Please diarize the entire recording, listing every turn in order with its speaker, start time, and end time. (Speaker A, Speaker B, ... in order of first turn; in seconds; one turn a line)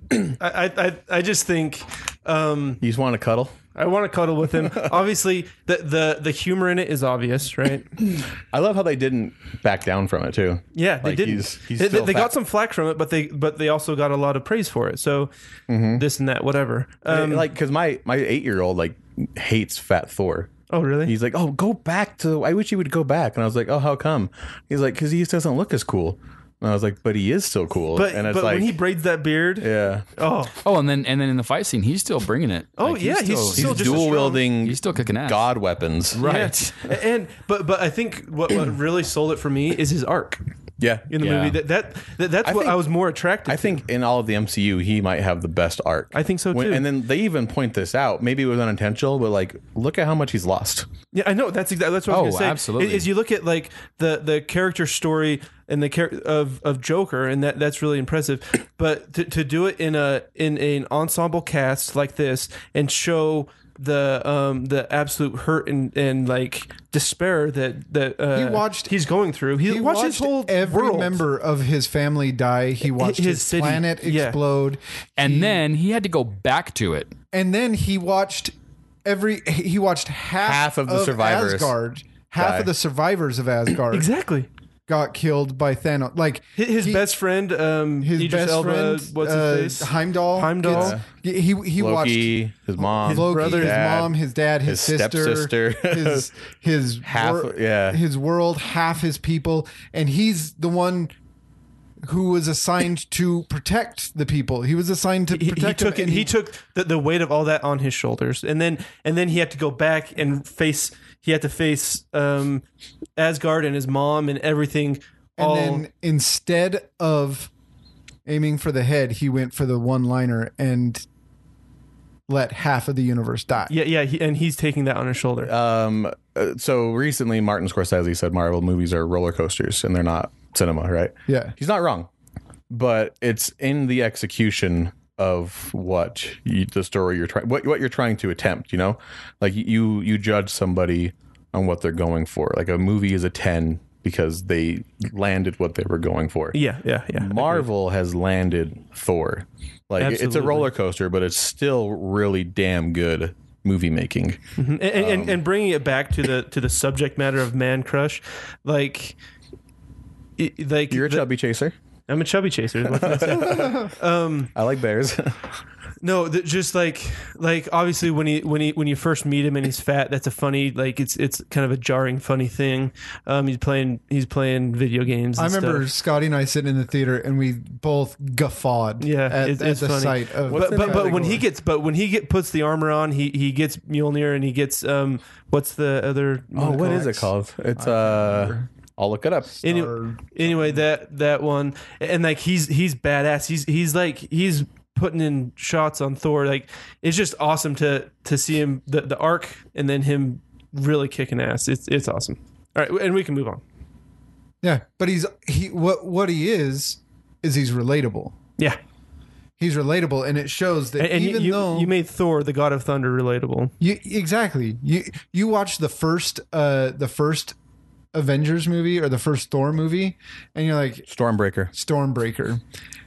Speaker A: 0.2-2.8
Speaker B: 2.8-3.5
Speaker A: 3.7-7.9
Speaker B: 4.6-4.9
Speaker B: 8.5-12.3
Speaker A: 10.7-15.3
Speaker B: 15.7-16.0
Speaker A: 15.9-17.5
Speaker B: 17.1-20.5
Speaker A: 20.7-21.1
Speaker B: 21.1-28.7
Speaker A: 27.9-30.5
Speaker B: 29.6-30.0
Speaker C: 30.6-35.5
Speaker A: 32.8-34.4
Speaker B: 33.5-36.2
Speaker C: 36.1-36.8
Speaker A: 36.2-40.4
Speaker B: 40.8-41.1
Speaker A: 41.1-43.8
Speaker C: 41.2-41.6
Speaker B: 42.4-42.8
Speaker B: 43.5-50.9
Speaker A: 46.1-46.9
Speaker A: 51.1-71.2
Speaker C: 52.1-53.1
Speaker D: 68.3-68.9
Speaker D: 69.6-75.6
Speaker A: 72.9-74.4
Speaker C: 75.2-77.1
Speaker D: 77.3-78.5
Speaker D: 79.0-84.1
Speaker B: 80.4-81.7
Speaker B: 82.4-82.7
Speaker A: 83.9-84.5
Speaker D: 84.9-87.1
Speaker A: 86.6-91.0
Speaker D: 88.0-101.1
Speaker B: 90.7-91.0
Speaker B: 91.8-94.1
Speaker A: 92.9-93.8
Speaker B: 94.6-96.3
Speaker B: 97.0-98.0
Speaker D: 102.0-106.3
Speaker A: 105.3-112.6
Speaker A: 113.2-115.8
Speaker D: 115.4-117.5
Speaker D: 118.2-121.0
Speaker D: 122.3-123.7
Speaker A: 123.7-125.5
Speaker B: 125.4-132.1
Speaker D: 131.3-131.5
Speaker B: 132.7-146.6
Speaker A: 146.5-147.7
Speaker B: 147.2-154.4
Speaker A: 150.0-150.7
Speaker A: 154.6-159.2
Speaker B: 154.9-155.4
Speaker A: 160.4-161.2
Speaker B: 160.9-161.7
Speaker A: 162.1-164.5
Speaker B: 162.9-163.9
Speaker D: 163.4-163.9
Speaker B: 164.5-165.4
Speaker A: 166.0-175.9
Speaker D: 175.4-181.4
Speaker A: 179.0-187.3
Speaker B: 180.5-181.4
Speaker B: 186.5-189.6
Speaker D: 187.8-188.6
Speaker D: 189.6-190.5
Speaker A: 189.6-203.6
Speaker D: 204.6-208.3
Speaker D: 209.6-211.9
Speaker A: 211.0-213.7
Speaker D: 213.8-217.6
Speaker D: 218.1-221.1
Speaker B: 221.1-221.7
Speaker D: 221.7-222.6